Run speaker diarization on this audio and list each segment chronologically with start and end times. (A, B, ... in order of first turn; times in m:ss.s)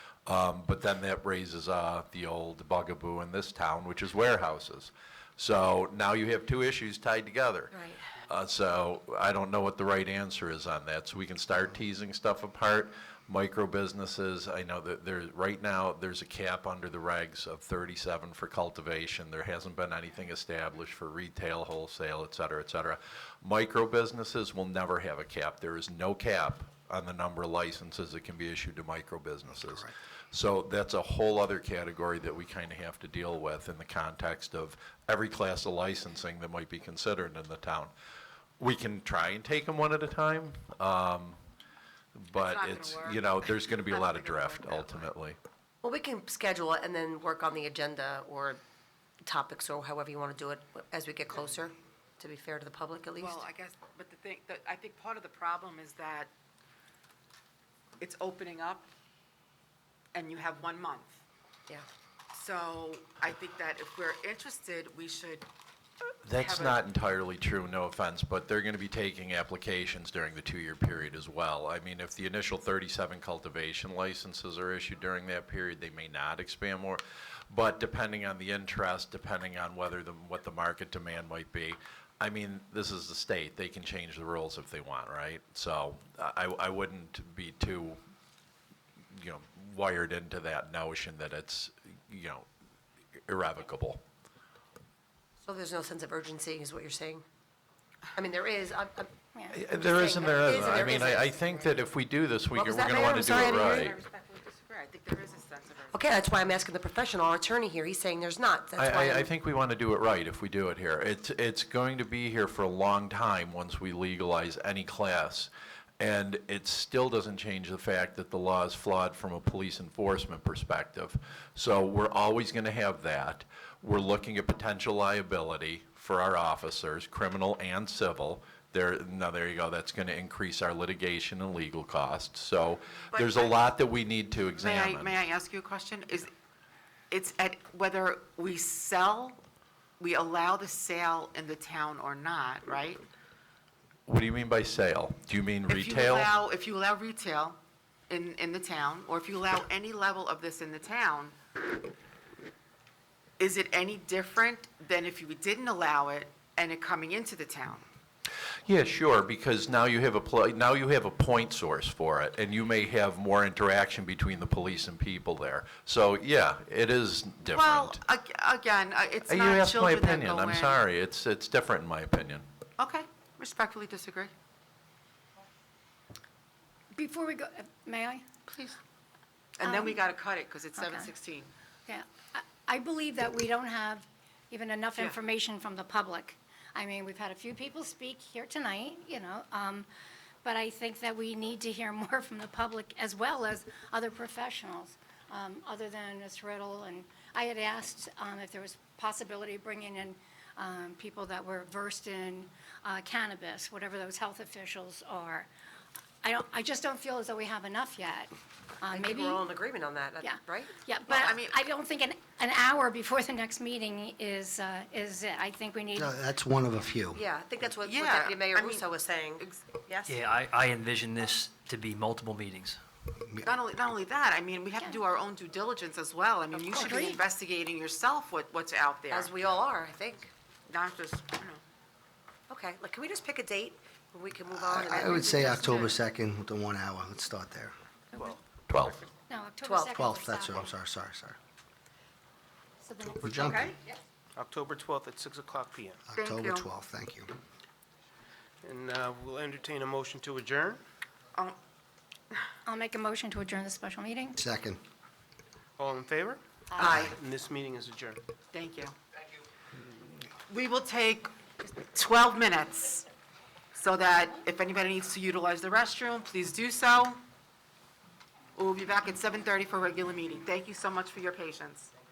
0:00.3-0:07.7 A
0:07.7-0:08.0 B
0:08.2-0:37.9 A
0:29.5-0:29.9 C
0:38.6-0:41.4 A
0:42.2-0:45.4 A
0:42.4-0:45.1 D
0:45.8-0:48.6 B
0:49.2-0:53.4 B
0:53.2-0:56.3 D
0:58.0-0:58.9 D
1:00.1-1:01.2 D
1:02.3-1:05.5 D
1:06.2-1:28.0 A
1:06.4-1:06.8 D
1:29.1-1:32.5 A
1:33.3-1:34.0 A
1:35.4-1:37.2 B
1:38.2-1:39.1 B
1:39.3-1:39.6 E
1:39.5-1:44.0 A
1:39.7-1:41.8 B
1:42.5-1:43.9 B
1:43.3-1:46.0 D
1:45.9-1:49.3 B
1:48.8-1:55.5 A
1:56.0-2:15.2 A
2:13.1-2:13.6 D
2:14.6-2:16.3 D
2:17.1-2:19.4 D
2:20.0-2:23.0 D
2:24.1-2:26.3 A
2:25.7-2:27.6 D
2:28.1-2:31.4 D
2:33.4-2:37.8 D
2:38.6-2:48.0 A
2:47.5-2:50.8 D
2:49.3-2:52.4 A
2:52.8-2:54.3 D
2:56.9-2:58.2 E
2:58.5-2:58.8 D
2:59.6-3:01.5 D
2:59.6-3:00.1 E
3:00.8-3:01.1 E
3:01.9-3:09.9 E
3:10.4-3:25.5 E
3:26.2-3:29.5 E
3:28.9-3:30.8 B
3:30.2-3:36.2 E
3:31.1-3:31.6 D
3:36.0-3:37.2 C
3:37.1-3:40.2 B
3:37.8-3:38.9 D
3:39.4-3:39.7 D
3:40.1-3:42.8 F
3:43.2-3:43.5 C
3:43.5-3:49.3 D
3:46.5-3:47.0 B
3:46.8-3:47.2 E
3:49.1-3:50.3 B
3:50.7-3:51.6 D
3:52.5-3:55.9 B
3:54.5-3:57.7 C
3:58.7-3:59.0 A
3:59.3-4:00.7 E
3:59.6-4:00.0 B
4:00.0-4:01.4 C
4:02.8-4:03.6 E
4:03.2-4:03.7 C
4:03.4-4:03.7 G
4:04.4-4:06.0 G
4:06.1-4:07.3 C
4:06.2-4:06.7 D
4:08.6-4:10.8 G
4:12.7-4:14.4 E
4:14.4-4:14.8 C
4:15.8-4:18.2 G
4:16.8-4:17.2 D
4:18.5-4:19.0 D
4:20.5-4:23.1 D
4:23.8-4:27.2 D
4:28.6-4:31.9 D